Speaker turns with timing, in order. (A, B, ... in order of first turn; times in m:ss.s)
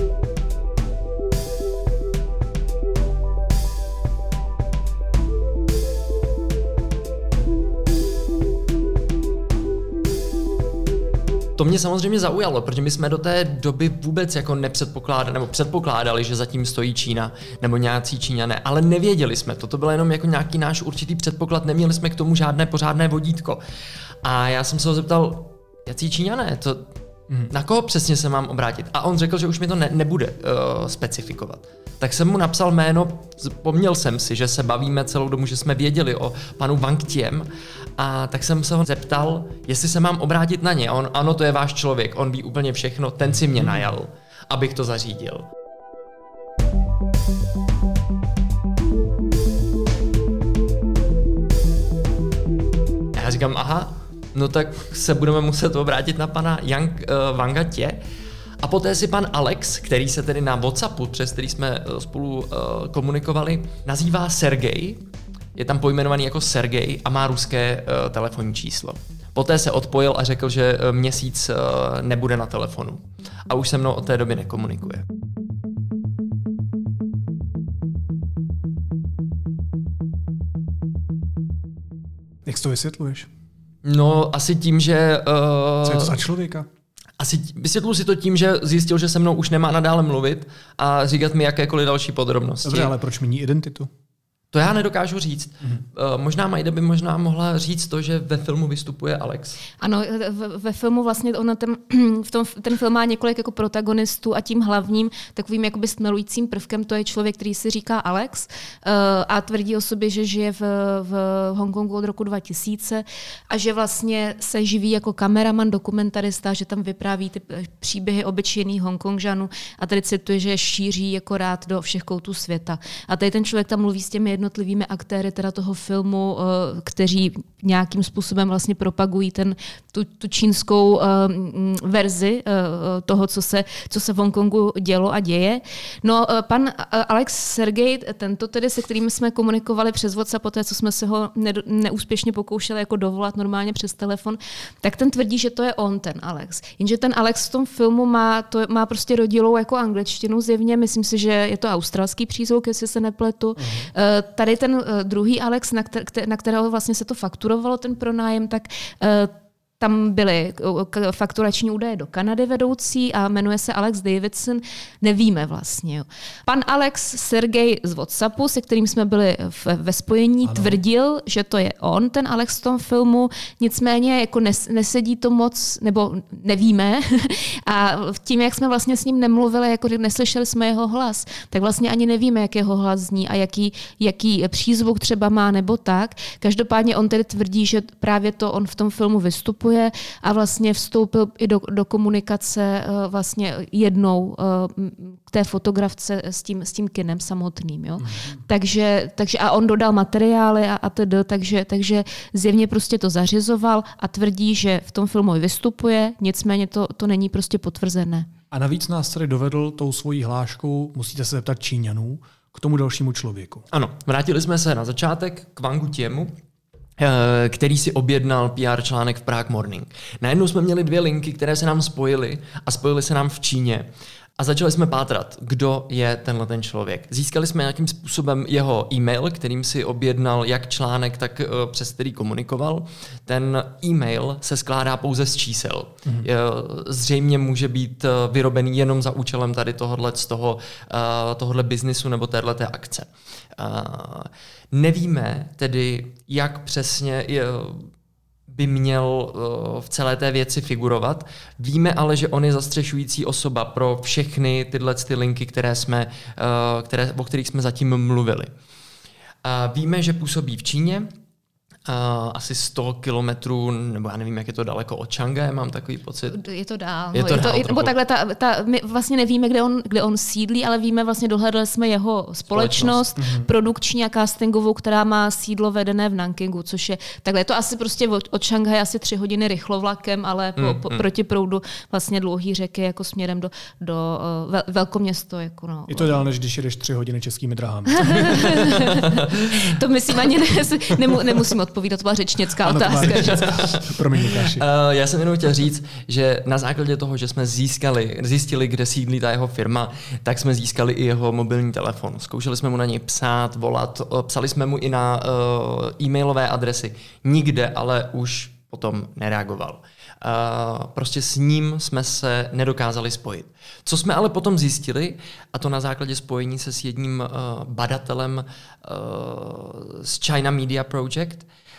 0:11.6-0:23.6 A
0:24.2-0:26.9 A
0:27.5-0:45.4 A
0:43.6-0:43.9 B
0:53.1-0:58.0 A
0:58.6-1:05.0 A
1:05.6-1:15.0 A
1:22.4-1:23.3 B
1:23.8-1:26.2 A
1:25.8-1:26.7 B
1:27.2-1:32.9 A
1:32.6-1:33.9 B
1:34.5-1:39.6 A
1:39.8-3:28.3 C
2:33.6-2:33.9 B
2:50.4-2:50.8 B
3:18.0-3:18.4 B
3:28.5-3:33.6 B
3:33.7-3:36.3 A
3:37.0-4:07.9 A
4:08.5-4:18.5 A
4:19.4-4:21.1 A
4:21.9-4:26.4 A
4:26.3-4:46.2 C
4:27.1-4:27.9 A
4:32.5-4:33.1 A
4:33.2-4:33.5 B
4:40.6-4:41.0 A
4:45.9-4:48.6 B
4:47.9-4:53.6 C
4:49.0-4:49.6 A
4:52.6-4:54.6 B
4:53.2-5:21.5 A